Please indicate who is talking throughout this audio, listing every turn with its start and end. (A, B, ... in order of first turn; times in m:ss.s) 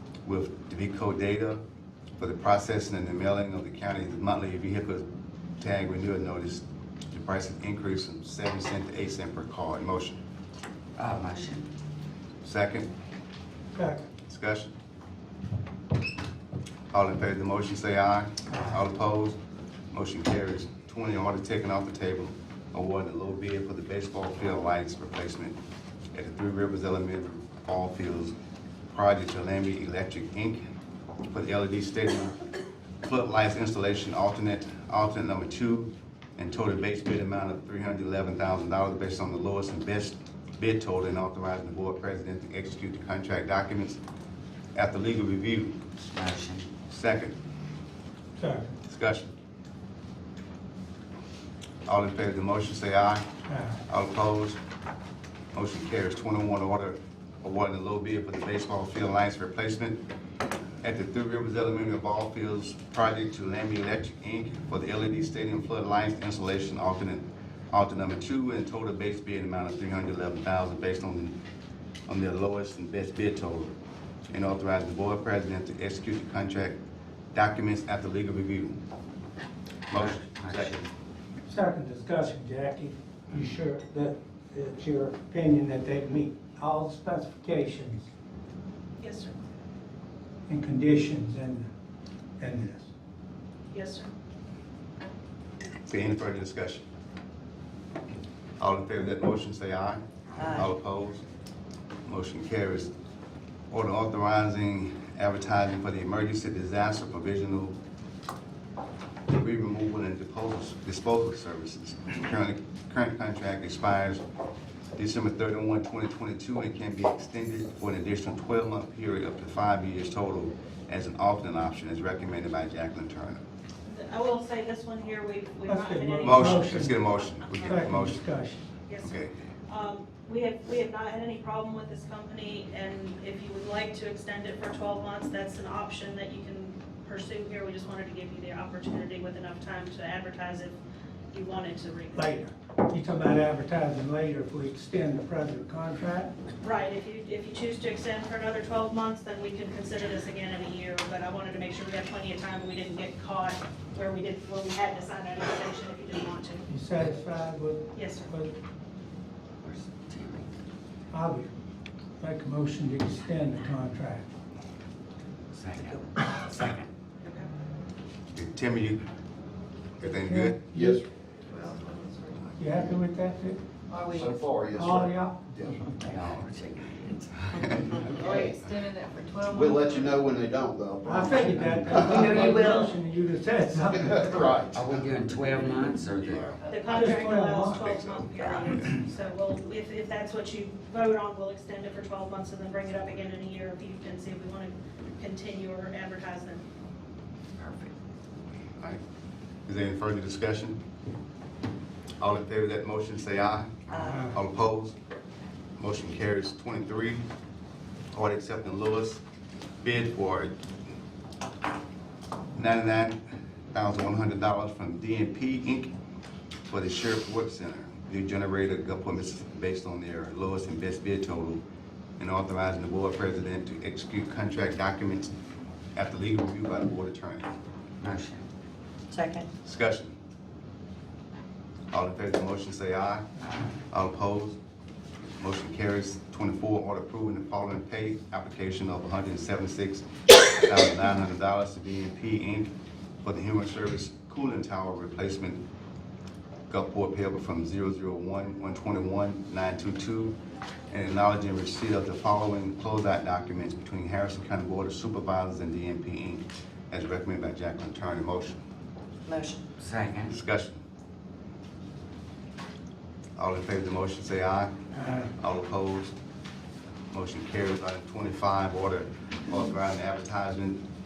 0:00.2-0:01.6 A
0:02.2-0:05.0 A
0:05.6-0:10.2 A
0:11.0-0:11.7 B
0:12.4-0:12.9 A
0:13.7-0:14.0 C
0:14.2-0:14.7 A
0:16.9-0:19.4 A
0:19.9-0:25.6 A
0:26.1-0:28.3 A
0:28.9-0:30.6 A
0:31.3-0:32.4 A
0:33.0-0:44.0 A
0:44.7-0:45.8 A
0:46.0-0:46.7 B
0:46.9-0:47.3 A
0:48.4-0:48.7 C
0:48.8-0:49.3 A
0:51.8-0:53.2 A
0:53.5-0:53.8 C
0:53.9-0:54.6 A
0:55.5-1:00.0 A
1:00.8-1:11.4 A
1:12.1-1:13.7 A
1:14.3-1:16.8 A
1:17.3-1:18.8 A
1:19.9-1:20.8 A
1:19.9-1:20.9 B
1:21.5-1:28.1 C
1:29.0-1:29.3 D
1:30.5-1:31.7 C
1:32.4-1:32.9 C
1:33.7-1:34.1 D
1:35.9-1:36.8 A
1:38.6-1:41.2 A
1:42.0-1:42.9 A
1:43.7-1:47.8 A
1:49.3-1:54.2 A
1:55.0-2:03.4 A
2:03.9-2:07.7 D
2:05.7-2:07.0 C
2:06.2-2:08.2 A
2:07.6-2:08.6 C
2:08.9-2:09.2 D
2:09.0-2:09.3 A
2:09.7-2:20.8 D
2:21.3-2:22.3 D
2:22.1-2:26.3 C
2:26.6-2:36.6 D
2:36.7-2:38.5 C
2:37.9-2:38.3 D
2:39.6-2:40.5 B
2:41.1-2:41.5 C
2:42.2-2:44.3 C
2:45.5-2:46.9 B
2:47.2-2:47.5 D
2:48.3-2:49.0 A
2:50.0-2:50.6 A
2:50.0-2:51.0 C
2:50.7-2:51.1 E
2:51.5-2:52.5 F
2:52.6-2:53.6 C
2:53.9-2:54.4 F
2:54.1-2:55.8 E
2:54.7-2:55.5 C
2:56.0-2:58.3 B
2:57.6-2:57.8 A
2:58.0-2:58.5 E
2:58.1-3:00.2 F
2:59.4-3:02.7 E
3:01.0-3:04.2 C
3:01.3-3:03.0 F
3:01.6-3:02.0 B
3:03.7-3:05.1 E
3:04.6-3:06.6 B
3:06.6-3:07.1 F
3:06.7-3:16.6 D
3:06.9-3:07.9 C
3:07.8-3:08.9 A
3:17.6-3:17.9 B
3:19.7-3:20.8 A
3:22.2-3:24.9 A
3:24.0-3:24.3 C
3:25.8-3:27.2 A
3:28.1-3:29.2 A
3:29.8-3:30.5 A
3:32.6-3:33.2 A
3:33.7-3:35.9 A
3:36.7-3:41.6 A
3:42.2-3:45.3 A
3:46.0-3:47.5 A
3:48.0-3:48.4 B
3:49.1-3:49.4 F
3:49.6-3:50.1 A
3:51.9-3:53.2 A
3:53.9-3:54.6 A
3:55.4-4:00.0 A
4:00.6-4:02.7 A
4:03.2-4:05.6 A
4:06.7-4:10.4 A
4:10.9-4:18.6 A
4:19.8-4:20.4 B
4:20.3-4:20.8 A
4:23.4-4:24.7 A
4:24.9-4:25.3 C
4:25.3-4:26.1 A
4:27.1-4:30.8 A